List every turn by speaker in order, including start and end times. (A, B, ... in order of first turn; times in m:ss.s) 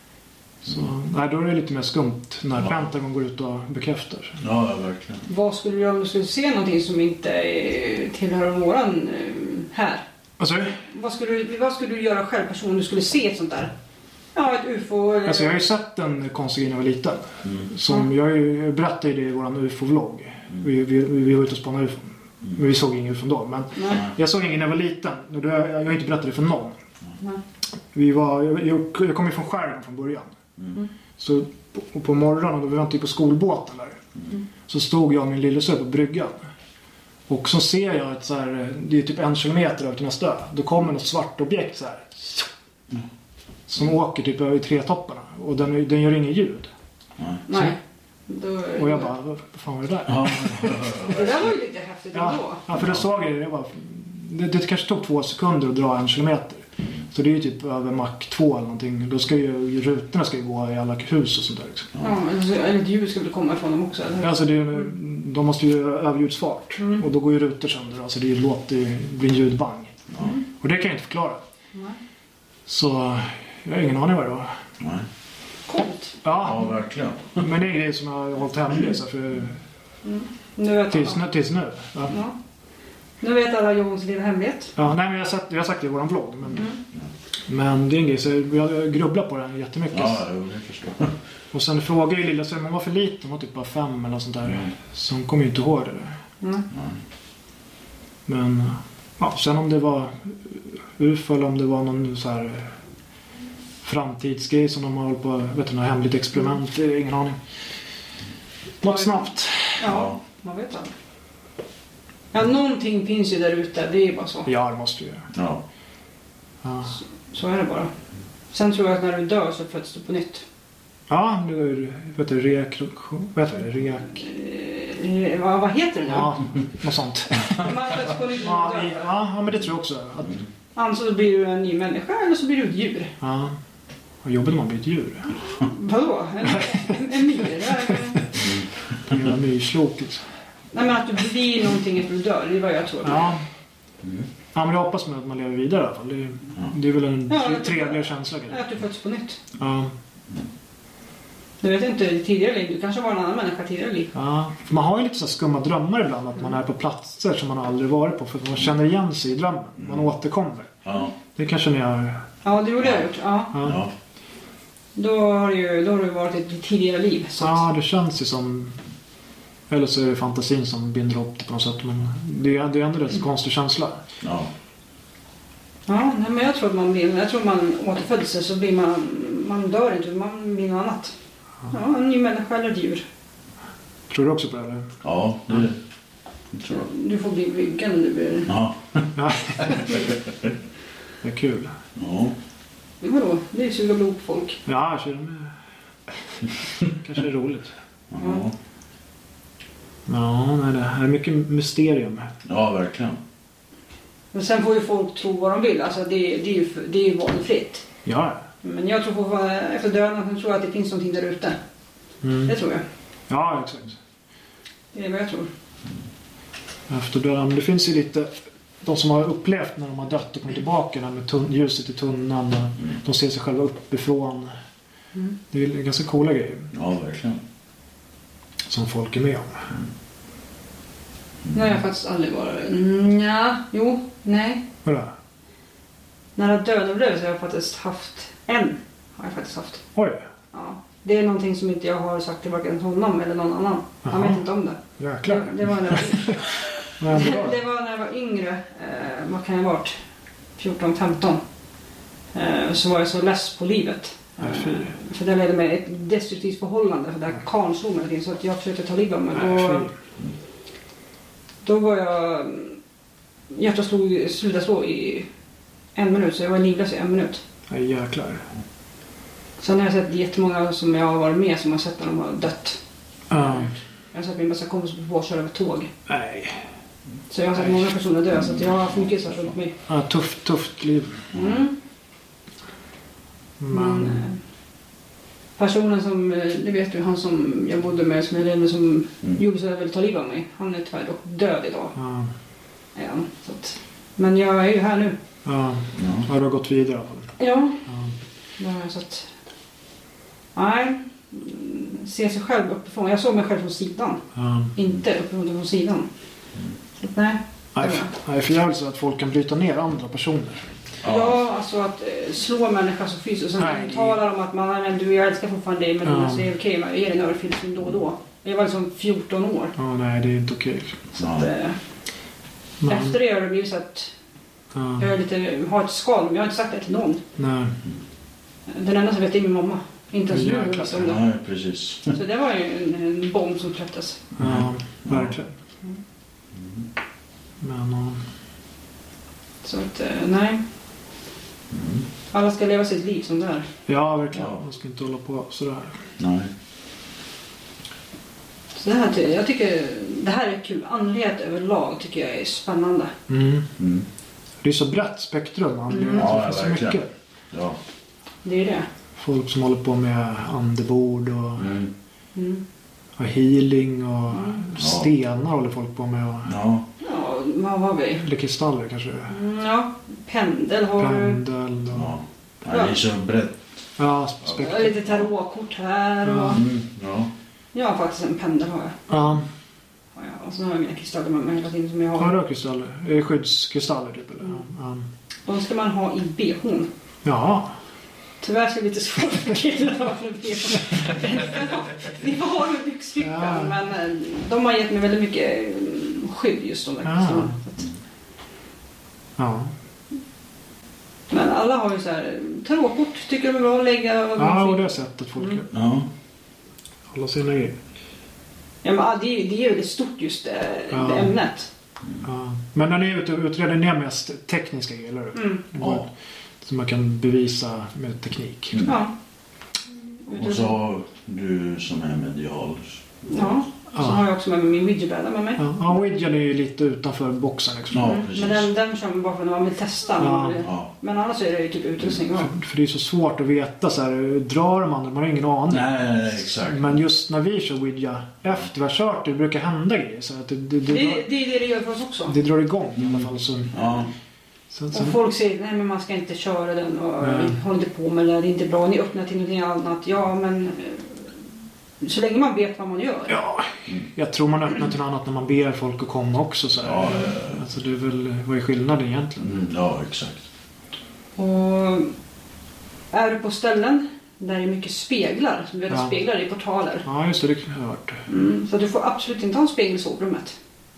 0:00.6-0:04.4 A
0:04.4-0:05.2 B
0:05.3-0:10.0 C
0:10.4-0:10.8 A
0:10.9-0:13.7 C
0:14.3-0:15.6 C
0:15.2-0:26.8 A
0:23.8-0:24.0 C
0:27.9-0:30.3 A
0:31.2-0:34.0 A
0:34.7-0:36.4 A
0:37.3-0:42.5 A
0:43.7-0:46.7 A
0:47.5-0:47.8 C
0:48.3-0:49.1 C
0:48.8-0:51.0 A
0:50.1-0:51.4 B
0:51.0-0:52.6 C
0:52.1-1:01.9 A
1:02.0-1:04.4 C
1:04.2-1:10.0 A
1:06.8-1:07.0 C
1:10.6-1:11.4 A
1:12.7-1:14.5 A
1:14.8-1:15.0 B
1:15.7-1:16.2 C
1:16.2-1:16.6 A
1:16.4-1:17.4 B
1:17.4-1:19.6 A
1:20.0-1:21.2 C
1:20.9-1:22.1 A
1:23.2-1:24.7 C
1:24.8-1:26.7 A
1:27.5-1:30.2 A
1:29.9-1:31.1 B
1:31.5-1:36.2 A
1:36.4-1:36.6 C
1:36.7-1:37.0 B
1:38.3-1:42.7 A
1:43.8-1:47.4 A
1:48.8-1:49.8 A
1:48.8-1:49.2 C
1:49.8-1:50.9 C
1:49.8-1:50.2 B
1:52.3-1:54.5 C
1:54.4-1:55.3 A
1:55.3-1:55.6 B
1:56.6-1:56.9 A
1:56.9-1:57.9 C
1:58.5-2:00.4 C
2:01.1-2:04.2 A
2:04.2-2:06.4 C
2:06.1-2:07.7 A
2:07.6-2:09.1 C
2:08.4-2:10.4 A
2:10.8-2:13.1 C
2:13.2-2:13.6 A
2:14.2-2:15.4 A
2:15.5-2:18.4 C
2:16.5-2:16.9 A
2:17.9-2:20.2 A
2:18.4-2:19.1 B
2:20.7-2:23.3 C
2:23.0-2:23.4 A
2:24.0-2:24.3 B
2:24.5-2:28.6 A
2:27.3-2:29.4 C
2:29.6-2:29.9 A
2:31.6-2:34.1 C
2:34.1-2:40.8 A
2:40.8-2:41.1 B
2:41.3-2:42.2 A
2:42.4-2:43.6 C
2:43.5-2:43.8 A
2:43.6-2:43.9 B
2:45.0-2:47.6 C
2:47.4-2:48.8 A
2:49.7-2:54.0 A
2:54.2-2:54.5 B
2:55.9-3:01.1 C
3:01.7-3:03.0 C
3:04.1-3:04.9 A
3:05.0-3:05.8 B
3:06.5-3:06.8 B
3:06.8-3:08.5 C
3:08.5-3:10.1 B
3:09.2-3:09.8 A
3:11.2-3:11.8 A
3:12.0-3:12.3 B
3:13.0-3:14.6 C
3:14.6-3:15.5 A
3:16.8-3:17.7 A
3:18.1-3:18.5 B
3:20.1-3:22.3 A
3:22.4-3:23.2 B
3:24.3-3:27.8 C
3:28.0-3:28.4 A
3:28.6-3:31.6 C
3:32.2-3:32.5 A
3:32.4-3:32.8 C
3:33.3-3:34.0 A
3:34.9-3:35.5 C
3:36.9-3:38.3 A
3:38.8-3:44.5 A
3:45.5-3:46.7 A
3:46.7-3:47.4 B
3:48.7-3:49.7 A
3:51.5-3:54.6 C
3:54.8-3:55.1 A
3:56.4-3:59.8 C
3:59.9-4:00.2 A
4:00.5-4:10.0 C
4:04.0-4:04.4 A
4:05.0-4:07.5 A
4:10.6-4:11.4 C
4:12.3-4:19.9 C
4:14.4-4:14.9 A
4:19.3-4:19.9 A
4:21.6-4:22.8 C
4:23.5-4:25.3 C
4:26.0-4:27.4 C
4:27.7-4:28.4 A
4:29.6-4:32.8 C
4:33.3-4:33.7 A
4:33.3-4:35.9 C
4:36.1-4:36.6 A
4:37.3-4:39.7 C
4:38.3-4:39.5 B
4:39.9-4:41.3 A
4:41.3-4:41.6 B
4:41.3-4:41.7 C
4:43.6-4:44.2 A
4:43.7-4:44.4 C
4:45.6-4:51.9 C
4:52.0-4:52.3 A
4:52.9-4:55.2 C
4:55.4-4:57.3 A
4:56.0-4:56.3 B
4:57.4-4:57.8 C
4:57.9-4:58.1 A
4:58.6-4:59.3 C
5:00.5-5:04.2 C
5:04.3-5:04.7 A
5:04.8-5:06.1 C
5:07.0-5:08.1 C
5:07.7-5:10.6 A
5:11.0-5:11.4 B
5:11.0-5:19.7 C
5:13.6-5:14.2 A
5:16.0-5:16.5 A
5:19.8-5:21.0 A
5:21.2-5:21.8 C
5:21.2-5:21.5 B
5:22.8-5:23.1 A
5:22.8-5:24.1 C
5:24.7-5:25.1 A
5:25.0-5:27.2 C
5:27.4-5:27.7 A
5:28.7-5:31.2 C
5:30.3-5:31.0 A
5:30.9-5:32.2 B
5:32.1-5:34.2 C
5:34.4-5:35.5 A
5:34.4-5:35.3 B
5:36.5-5:36.9 B
5:37.6-5:38.2 A
5:39.6-5:40.6 C
5:41.7-5:42.1 B
5:42.3-5:43.7 C
5:43.9-5:46.0 A
5:46.2-5:46.5 B
5:48.8-5:53.1 C
5:53.3-5:53.7 A
5:53.8-5:54.0 B
5:54.6-5:57.1 A
5:55.9-5:56.3 C
5:56.1-5:57.8 B
5:58.4-5:58.9 C
5:59.2-6:01.7 A
6:01.6-6:01.9 B
6:02.3-6:02.6 C
6:03.2-6:06.5 A
6:04.3-6:04.6 C
6:04.8-6:05.1 B
6:06.4-6:06.8 B
6:07.0-6:08.3 C
6:08.2-6:09.4 A
6:09.3-6:11.4 C
6:11.0-6:12.1 A
6:11.9-6:13.6 B
6:12.7-6:13.0 C
6:14.0-6:15.0 A
6:14.6-6:16.6 C
6:16.2-6:16.6 A
6:16.5-6:17.3 B
6:17.7-6:19.0 C
6:19.1-6:19.4 A
6:20.1-6:22.3 C
6:22.2-6:25.1 A
6:25.5-6:26.9 C
6:27.2-6:27.7 A
6:28.4-6:37.8 C
6:33.2-6:33.7 A
6:37.0-6:37.5 A
6:39.4-6:39.7 A
6:41.3-6:45.6 C
6:44.4-6:45.7 A
6:45.7-6:46.1 B
6:47.1-6:47.8 A
6:48.8-6:51.7 C
6:50.9-6:51.3 A
6:52.2-6:56.1 A
6:55.3-6:55.6 C
6:56.6-6:58.8 A
6:58.8-6:59.1 C
7:00.2-7:00.7 C
7:00.3-7:03.6 B
7:03.3-7:05.7 C
7:04.0-7:04.2 A
7:05.6-7:08.2 A
7:07.9-7:08.7 B
7:08.0-7:12.5 C
7:10.2-7:10.6 A
7:12.4-7:21.2 A
7:15.7-7:16.9 B
7:20.9-7:22.3 C
7:22.3-7:23.8 A
7:23.7-7:24.1 B
7:24.7-7:25.2 A
7:24.9-7:31.2 C
7:27.2-7:27.5 A
7:32.0-7:33.4 C
7:33.3-7:39.5 A
7:36.8-7:37.6 B
7:39.4-7:40.5 B
7:41.4-7:42.1 C
7:43.1-7:47.0 C
7:47.0-7:48.2 A
7:48.3-7:50.6 C